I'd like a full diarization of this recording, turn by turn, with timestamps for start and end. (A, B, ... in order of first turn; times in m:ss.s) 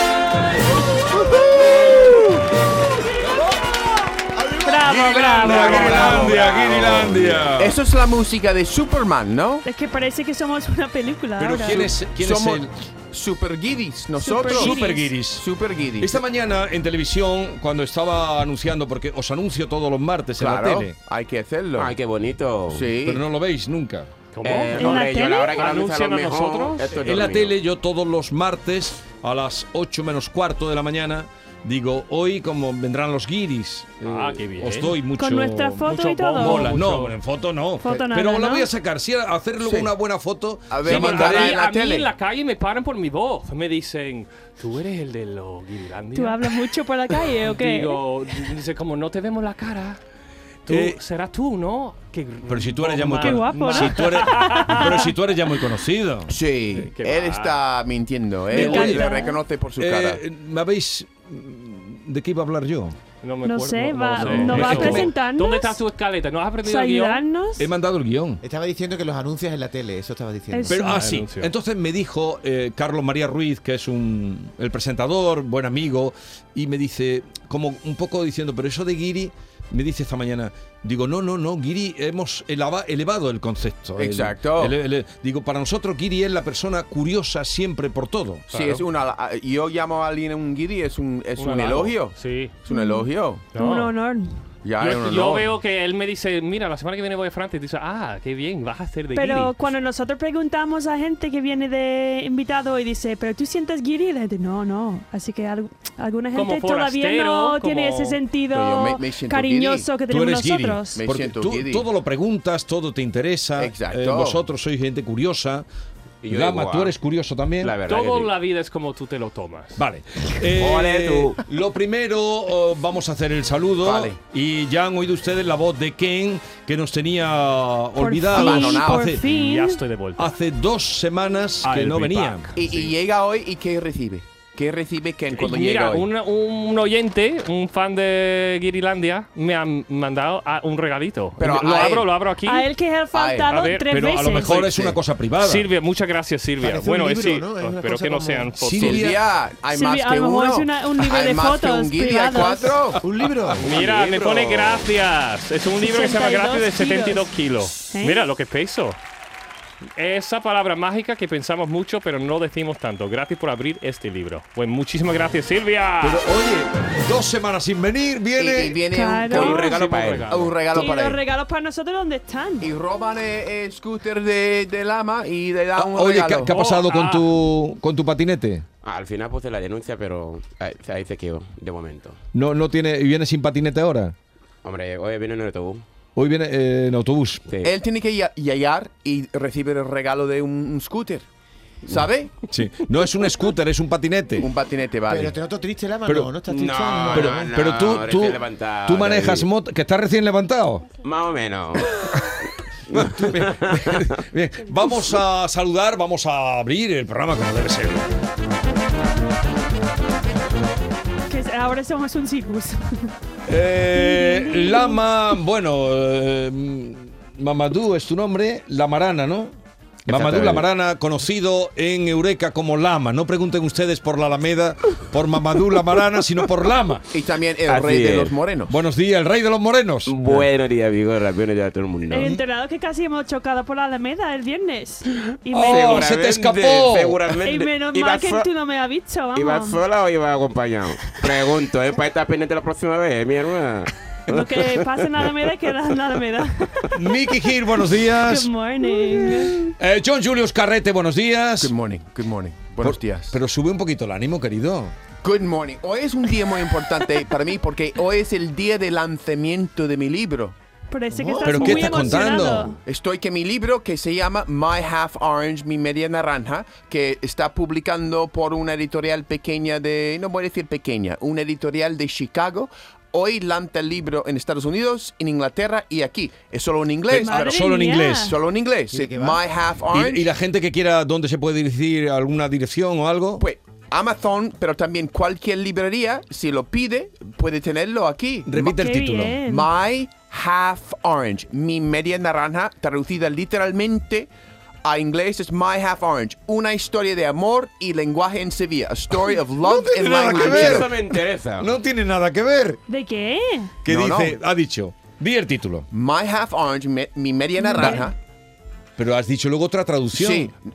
0:01.3-0:02.0 A
0:04.6-0:07.8 A
0:04.6-0:06.4 B
0:05.3-0:06.8 C
0:06.2-0:07.4 D
0:07.5-0:09.6 C
0:09.6-0:12.0 B
0:11.4-0:12.7 A
0:11.7-0:16.2 C
0:14.2-0:15.2 B
0:14.5-0:15.4 A
0:16.0-0:21.0 A
0:20.4-0:21.9 C
0:21.8-0:22.9 D
0:22.7-0:23.2 C
0:23.0-0:24.1 A
0:24.3-0:27.1 E
0:24.4-0:27.6 D
0:24.8-0:25.6 B
0:27.0-0:35.7 A
0:34.0-0:37.2 E
0:35.1-0:36.8 B
0:36.4-0:41.6 A
0:37.8-0:38.7 B
0:39.6-0:39.9 C
0:40.7-0:42.1 C
0:40.8-0:46.6 E
0:46.1-0:48.0 B
0:47.4-0:50.0 E
0:50.7-0:55.1 E
0:50.7-0:51.0 A
0:52.5-0:56.3 A
0:53.2-0:55.1 B
0:56.3-1:00.2 C
0:56.8-0:57.6 E
0:58.5-0:59.4 B
0:58.5-0:59.2 A
0:59.8-1:03.0 A
1:03.2-1:07.2 E
1:03.4-1:05.8 B
1:04.2-1:05.2 A
1:06.6-1:07.7 B
1:07.6-1:08.4 A
1:08.4-1:10.8 F
1:10.5-1:11.0 B
1:10.7-1:28.4 A
1:10.8-1:11.5 E
1:24.0-1:24.8 C
1:28.5-1:33.4 C
1:28.5-1:28.8 E
1:31.4-1:32.5 E
1:32.7-1:34.4 B
1:33.6-1:33.9 E
1:34.6-1:35.5 C
1:34.8-1:39.6 E
1:39.1-1:51.0 B
1:46.3-1:48.2 E
1:48.5-1:50.0 C
1:50.1-1:55.6 A
1:50.9-1:51.9 C
1:53.6-1:54.4 C
1:56.2-1:57.0 D
1:56.3-1:57.7 A
1:57.6-1:58.3 D
1:57.9-1:59.8 E
1:59.8-2:09.2 A
2:00.6-2:01.4 D
2:03.8-2:04.2 C
2:08.0-2:09.8 B
2:08.4-2:09.2 C
2:09.2-2:10.3 E
2:10.2-2:12.5 A
2:11.6-2:12.6 E
2:12.6-2:16.1 C
2:15.3-2:22.7 E
2:21.4-2:22.2 C
2:22.4-2:24.7 B
2:23.1-2:23.6 C
2:23.5-2:23.9 E
2:23.9-2:25.7 A
2:24.4-2:25.0 C
2:25.4-2:29.1 E
2:26.6-2:28.5 F
2:28.6-2:29.2 A
2:28.8-2:33.0 C
2:29.7-2:32.8 B
2:33.0-2:33.6 F
2:33.6-2:39.0 E
2:33.6-2:34.9 D
2:35.8-2:38.3 B
2:40.0-2:46.2 E
2:46.0-2:48.8 A
2:48.4-2:49.6 C
2:48.9-2:49.8 B
2:49.3-2:50.5 D
2:49.3-2:50.5 E
2:50.3-2:51.2 C
2:50.7-2:52.7 B
2:52.6-2:56.6 C
2:55.8-2:58.6 A
2:56.5-2:57.3 E
2:58.8-3:02.2 D
3:02.3-3:04.1 A
3:04.6-3:05.8 D
3:06.2-3:07.4 A
3:07.5-3:07.7 D
3:07.6-3:11.3 C
3:11.8-3:12.4 C
3:12.5-3:14.5 A
3:14.4-3:15.4 C
3:15.1-3:17.5 F
3:16.5-3:19.5 D
3:17.1-3:20.9 A
3:21.0-3:22.0 D
3:22.9-3:24.2 D
3:22.9-3:28.1 A
3:31.3-3:33.1 B
3:33.5-3:39.5 A
3:33.9-3:35.0 B
3:40.1-3:40.7 D
3:40.1-3:47.1 A
3:47.1-3:48.8 C
3:47.7-3:48.4 D
3:48.7-3:50.5 A
3:50.1-3:52.4 D
3:52.1-3:56.1 B
3:55.5-3:57.2 A
3:55.6-3:58.5 D
3:57.4-3:59.8 B
3:59.4-4:05.5 D
4:04.3-4:09.7 B
4:06.9-4:08.5 A
4:09.1-4:11.7 A
4:11.6-4:13.4 C
4:12.8-4:14.9 A
4:15.2-4:20.6 C
4:20.9-4:22.8 B
4:21.1-4:22.2 F
4:21.4-4:22.8 A
4:22.8-4:37.6 C
4:37.1-4:38.3 A
4:37.2-4:38.4 B
4:38.2-4:40.3 C
4:38.9-4:39.4 F
4:39.9-4:43.4 A
4:43.4-4:48.7 C
4:48.5-4:49.4 A
4:48.6-4:49.7 B
4:49.4-4:54.3 C
4:54.8-5:01.0 C
4:59.6-5:02.8 A
5:00.3-5:01.7 D
5:02.9-5:03.8 B
5:03.8-5:05.9 A
5:03.9-5:04.4 C
5:05.9-5:08.2 C
5:07.6-5:08.1 B
5:07.8-5:08.0 A
5:09.0-5:10.5 A
5:10.1-5:10.6 C